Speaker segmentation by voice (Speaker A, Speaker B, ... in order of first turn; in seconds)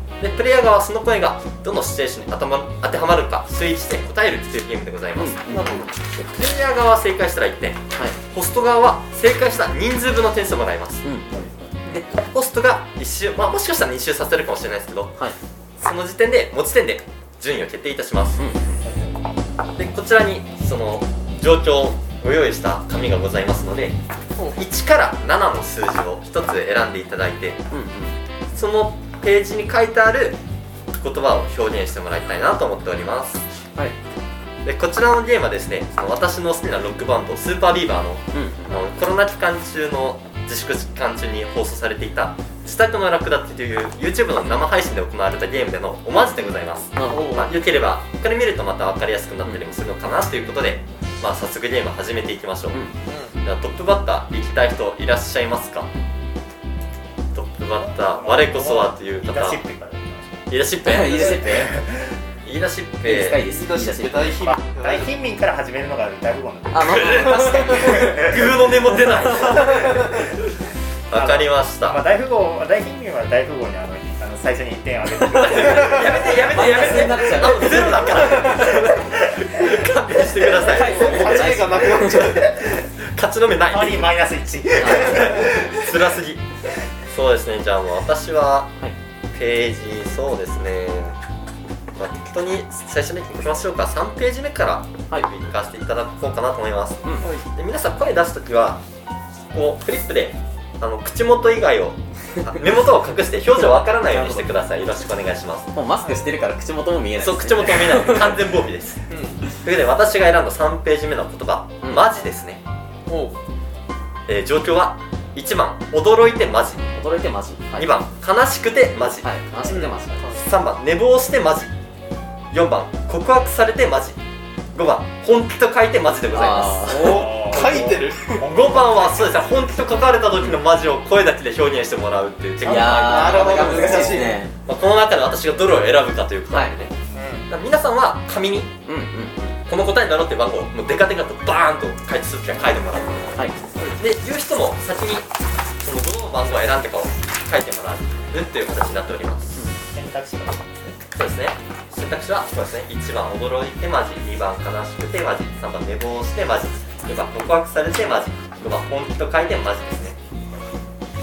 Speaker A: 0.2-5.4, 6.0-11.0, 11.8-15.1, 15.8-18.4, 19.8-24.0, 24.6-27.6, 28.5-30.4, 31.0-33.4, 34.6-52.8, 53.4-55.9, 57.3-59.6, 60.5-61.4, 62.4-63.4, 66.9-70.3, 71.1-72.0, 75.3-82.5, 83.1-84.1, 84.8-86.4, 87.1-88.8, 89.3-91.2, 92.0-98.8, 99.5-105.7, 107.2-112.6, 114.3-116.8, 117.8-119.2, 120.3-121.7, 122.5-124.2, 124.7-127.0, 128.4-136.9, 137.5-138.7, 139.7-143.4, 143.9-145.3, 145.8-149.6, 151.2-160.2
Speaker B: 5.2-5.9, 11.0-11.5, 18.4-18.8, 27.7-28.1, 38.3-38.9, 47.0-47.3, 60.8-61.8, 63.0-64.4, 66.7-68.3, 69.1-69.4, 76.4-78.8, 80.6-82.2, 84.8-85.2, 104.0-104.5, 105.7-108.3, 116.9-117.9, 119.2-120.2, 126.3-127.4, 132.6-134.5, 138.9-139.6
Speaker C: 5.5-5.9, 47.1-47.5, 53.1-53.4, 63.4-65.1, 69.7-70.0, 80.5-82.6, 109.1-109.4, 113.1-113.4, 119.7-120.4, 126.8-128.5, 132.7-134.4, 137.1-137.4
Speaker D: 18.8-19.1, 58.0-60.4, 61.4-62.2, 64.4-68.5, 71.1-76.7, 78.4-79.7, 81.1-82.8, 83.7-85.9, 127.0-129.5, 149.9-151.0